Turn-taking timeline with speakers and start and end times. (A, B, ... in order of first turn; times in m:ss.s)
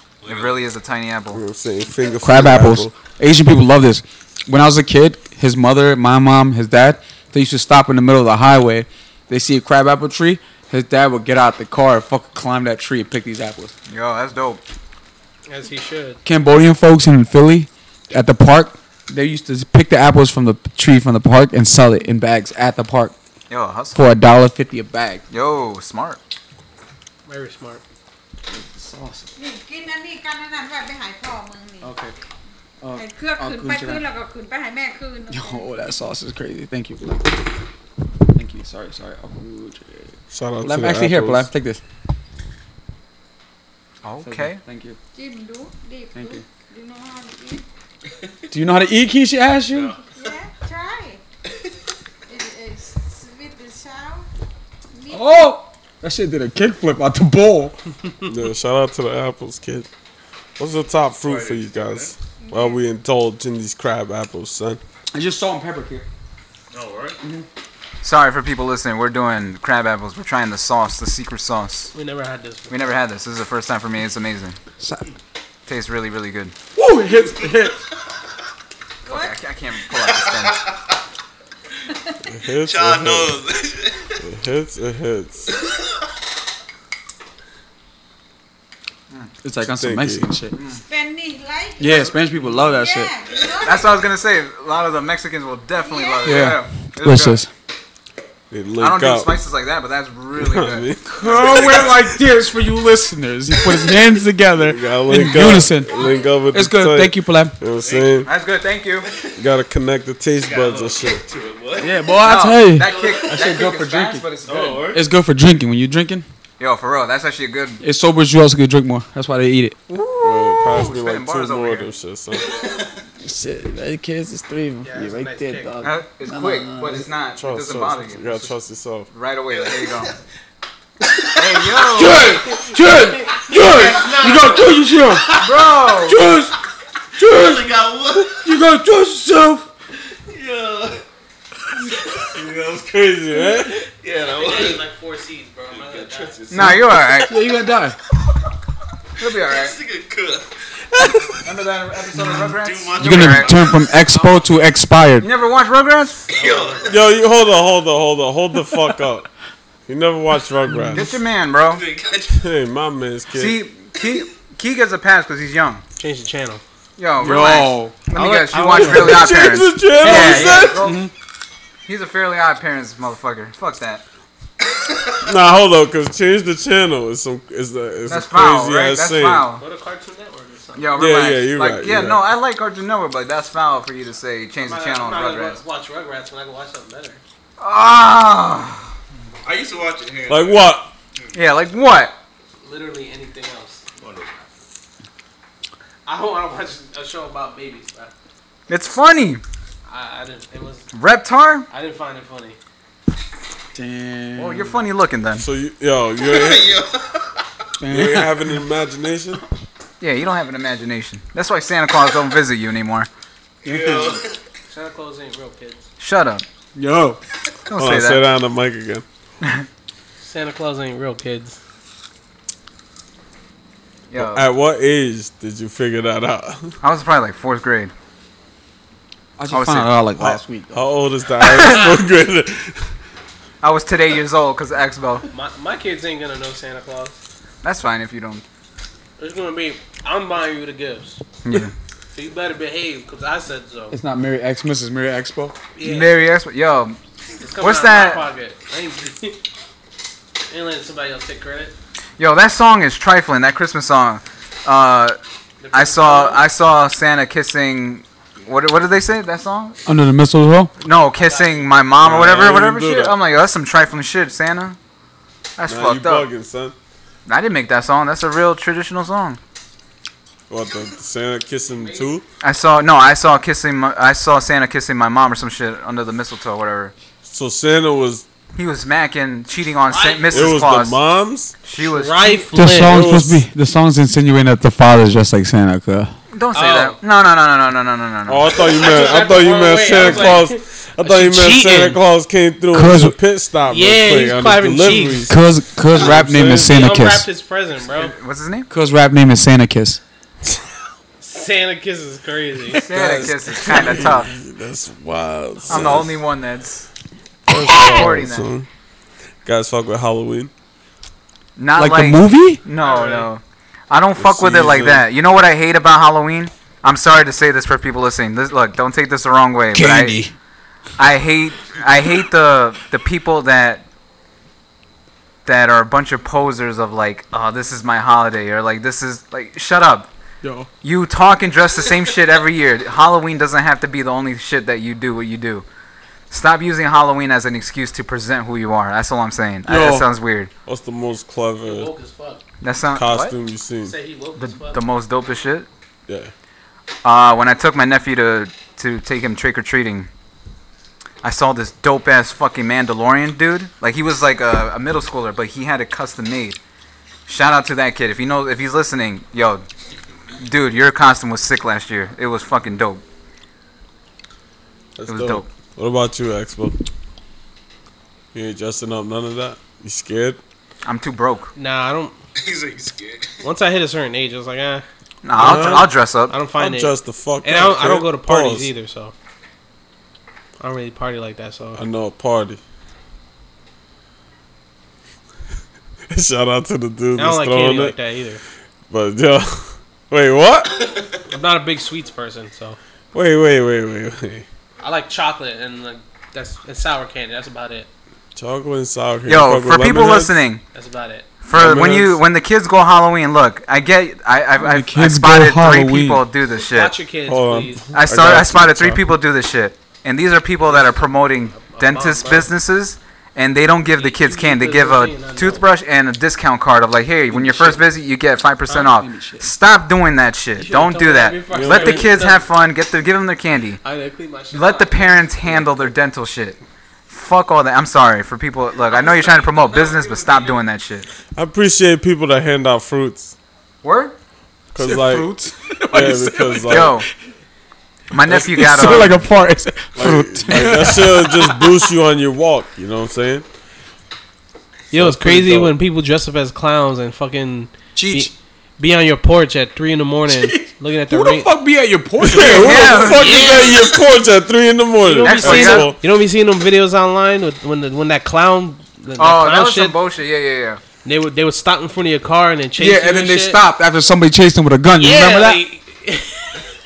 0:00.2-0:00.6 A
0:00.2-0:01.4 B
0:01.3-0:02.9 C
0:02.2-0:13.7 D
0:13.9-0:14.6 B
0:15.5-0:16.2 E
0:16.2-0:23.1 D
0:23.5-0:24.0 B
0:23.9-0:25.2 D
0:25.3-0:26.2 B
0:27.3-0:27.8 E
0:28.5-0:29.3 D
0:29.4-0:32.0 F
0:31.8-0:32.1 D
0:32.8-0:34.0 D
0:33.0-0:36.0 F
0:35.3-0:37.4 D
0:38.3-0:41.8 D
0:40.3-0:41.5 C
0:44.0-0:44.6 B
0:44.2-0:45.0 D
0:45.1-0:47.6 F
0:46.1-0:46.4 D
0:48.5-0:50.0 D
0:49.7-0:50.0 A
0:50.0-0:51.2 F
0:52.3-0:54.2 F
0:54.9-0:55.5 F
0:55.1-0:57.8 D
0:58.2-0:59.9 C
1:00.6-1:04.8 C
1:01.2-1:02.1 A
1:02.4-1:02.8 F
1:05.1-1:06.1 D
1:06.7-1:07.2 A
1:08.0-1:11.9 B
1:11.9-1:13.0 E
1:12.7-1:14.6 B
1:14.8-1:15.0 D
1:15.6-1:16.5 B
1:16.7-1:17.8 D
1:19.0-1:19.4 F
1:19.0-1:20.6 B
1:20.1-1:20.8 A
1:22.3-1:23.4 C
1:22.6-1:24.2 A
1:24.2-1:25.5 C
1:29.4-1:30.6 D
1:29.6-1:30.3 C
1:30.5-1:30.8 B
1:30.7-1:34.0 F
1:31.8-1:33.1 D
1:33.6-1:37.4 B
1:35.7-1:36.5 F
1:36.2-1:37.5 D
1:38.5-1:39.4 C
1:38.8-1:40.9 B
1:40.4-1:41.9 C
1:41.0-1:46.0 D
1:41.2-1:42.0 A
1:44.5-1:48.3 C
1:46.5-1:47.6 D
1:47.8-1:48.3 A
1:48.2-1:49.1 B
1:49.0-1:49.3 A
1:49.4-1:51.2 C
1:50.4-1:52.0 A
1:51.8-1:54.2 D
1:52.2-1:54.9 B
1:52.8-1:53.4 A
1:54.4-1:55.0 A
1:54.9-1:56.2 D
1:56.6-1:57.8 B
1:57.8-1:59.8 D
1:59.9-2:01.9 B
2:00.2-2:02.6 C
2:02.5-2:02.9 A
2:03.2-2:07.1 D
2:04.8-2:05.7 E
2:05.8-2:08.5 B
2:07.4-2:09.1 C
2:09.1-2:10.1 B
2:09.6-2:10.1 A
2:11.3-2:12.3 B
2:11.9-2:16.6 D
2:13.2-2:15.0 E
2:13.6-2:14.4 A
2:15.4-2:16.2 B
2:17.2-2:18.5 A
2:17.2-2:17.7 D
2:18.4-2:19.7 D
2:20.3-2:21.0 A
2:21.9-2:22.9 A
2:22.8-2:23.8 C
2:24.0-2:24.8 A
2:24.3-2:26.4 E
2:25.7-2:26.8 A
2:26.5-2:27.3 B
2:26.5-2:28.0 D
2:29.2-2:29.8 B
2:29.4-2:30.5 A
2:31.4-2:33.6 B
2:32.3-2:34.4 A
2:33.0-2:35.3 D
2:35.2-2:36.2 B
2:36.3-2:37.0 A
2:36.3-2:36.9 E
2:36.8-2:39.3 C
2:39.9-2:41.1 C
2:40.7-2:41.1 D
2:40.9-2:41.8 B
2:41.6-2:42.4 A
2:42.3-2:43.6 C
2:43.3-2:45.8 B
2:46.0-2:46.6 E
2:47.0-2:51.0 B
2:47.2-2:48.0 D
2:48.1-2:49.3 E
2:48.8-2:50.9 C
2:50.0-2:51.1 D
2:51.8-2:54.0 B
2:55.2-2:59.5 C
2:58.0-2:59.6 B
2:59.6-3:00.9 E
3:00.7-3:05.6 B
3:01.0-3:02.2 C
3:04.6-3:07.2 E
3:07.6-3:08.9 B
3:09.4-3:11.4 A
3:10.3-3:10.9 C
3:11.3-3:12.2 B
3:12.6-3:13.8 E
3:14.0-3:14.3 A
3:16.0-3:18.1 E
3:18.7-3:19.4 B
3:19.9-3:20.9 E
3:20.9-3:21.7 B
3:21.7-3:22.6 E
3:23.7-3:24.8 D
3:24.4-3:25.4 B
3:25.4-3:26.8 C
3:26.2-3:27.3 A
3:27.8-3:28.6 D
3:27.9-3:29.4 C
3:30.0-3:33.1 B
3:33.6-3:34.4 A
3:33.6-3:34.2 D
3:34.7-3:35.8 E
3:36.0-3:36.4 B
3:36.7-3:37.2 D
3:37.6-3:38.2 B
3:37.8-3:39.0 C
3:40.2-3:41.6 E
3:44.1-3:44.5 B
3:44.1-3:46.8 C
3:46.8-3:47.9 B
3:49.4-3:50.9 D
3:49.5-3:49.9 B
3:50.2-3:52.9 C
3:53.6-3:55.2 B
3:55.3-3:57.2 E
3:57.6-3:58.4 B
3:59.2-4:01.2 E
4:01.4-4:01.7 B
4:02.1-4:04.0 E
4:03.9-4:05.6 D
4:05.8-4:06.1 E
4:05.8-4:07.0 B
4:07.4-4:09.4 E
4:07.6-4:08.2 B
4:10.5-4:11.7 E
4:12.2-4:15.2 B
4:15.6-4:16.4 E
4:15.7-4:19.8 B
4:19.8-4:20.7 D
4:20.8-4:24.8 B
4:21.1-4:21.7 E
4:22.0-4:23.2 C
4:25.6-4:26.3 B
4:25.7-4:26.8 C
4:27.2-4:29.4 B
4:30.5-4:32.2 C
4:31.7-4:32.1 E
4:32.4-4:36.9 B
4:37.2-4:38.2 C
4:38.5-4:41.0 B
4:39.9-4:40.5 E
4:40.3-4:41.5 C
4:41.6-4:42.4 B
4:41.8-4:43.1 E
4:42.5-4:46.1 D
4:42.7-4:43.4 C
4:46.3-4:48.6 B
4:46.5-4:47.0 E
4:48.3-4:55.4 C
4:48.6-4:52.0 E
4:52.7-4:53.2 D
4:53.7-4:55.3 E
4:55.3-4:57.3 D
4:55.9-4:56.7 C
4:56.0-4:58.1 E
4:57.8-4:58.7 B
4:58.7-5:00.0 D
5:01.2-5:02.8 E
5:02.8-5:04.3 B
5:02.9-5:06.2 C
5:05.7-5:06.9 B
5:07.5-5:08.7 C
5:07.5-5:08.0 D
5:07.6-5:08.5 B
5:09.4-5:10.5 C
5:11.6-5:20.2 B
5:11.8-5:12.6 D
5:12.8-5:13.3 E
5:14.2-5:15.0 C
5:19.7-5:20.3 D
5:21.0-5:23.8 B
5:25.4-5:30.1 B
5:30.4-5:30.7 D
5:30.8-5:35.6 B
5:36.3-5:40.5 B
5:39.7-5:40.1 D
5:40.6-5:41.9 C
5:41.6-5:42.4 E
5:42.6-5:43.3 B
5:42.9-5:43.9 C
5:43.8-5:44.8 E
5:44.4-5:45.7 B
5:46.1-5:46.3 C
5:47.0-5:50.1 B
5:51.2-5:56.6 B
5:57.2-5:59.6 B
6:00.4-6:03.0 B
6:05.0-6:06.8 C
6:05.1-6:05.5 B
6:08.3-6:10.4 C
6:10.8-6:11.5 B
6:11.6-6:12.1 E
6:12.4-6:13.4 A
6:13.4-6:14.8 E
6:15.2-6:16.3 B
6:15.4-6:15.9 C
6:15.4-6:15.8 E
6:16.3-6:19.1 E
6:16.5-6:18.7 C
6:20.6-6:21.8 E
6:21.8-6:22.6 C
6:26.1-6:28.0 C
6:27.2-6:28.4 E
6:28.9-6:30.9 C
6:31.3-6:32.8 E
6:33.1-6:34.4 C
6:34.8-6:37.9 E
6:38.3-6:40.4 C
6:39.2-6:40.6 B
6:40.7-6:41.3 E
6:41.4-6:46.9 B
6:41.5-6:42.2 C
6:44.6-6:46.2 D
6:46.6-6:47.8 E
6:47.3-6:49.0 C
6:47.9-7:03.8 B
6:50.6-6:52.5 E
6:53.9-6:55.6 E
6:57.3-6:57.8 E
6:58.8-6:59.5 D
7:00.6-7:02.4 E
7:01.5-7:02.1 C
7:03.8-7:05.9 E
7:04.5-7:06.6 B
7:07.1-7:11.1 B
7:09.2-7:10.4 E
7:11.3-7:13.3 C
7:13.8-7:14.1 B
7:14.7-7:15.3 C
7:14.8-7:17.0 D
7:15.9-7:17.0 C
7:16.7-7:17.1 B
7:18.1-7:19.3 B
7:18.3-7:18.7 C
7:18.3-7:21.9 D
7:19.9-7:23.4 C
7:24.9-7:25.8 C
7:24.9-7:31.5 E
7:28.0-7:28.3 D
7:30.3-7:33.6 D
7:32.2-7:36.0 C
7:32.4-7:33.5 B
7:33.1-7:33.9 E
7:35.0-7:40.0 E
7:35.2-7:35.9 B
7:39.2-7:40.8 B
7:41.0-7:43.6 E
7:42.8-7:45.6 D
7:45.0-7:46.7 E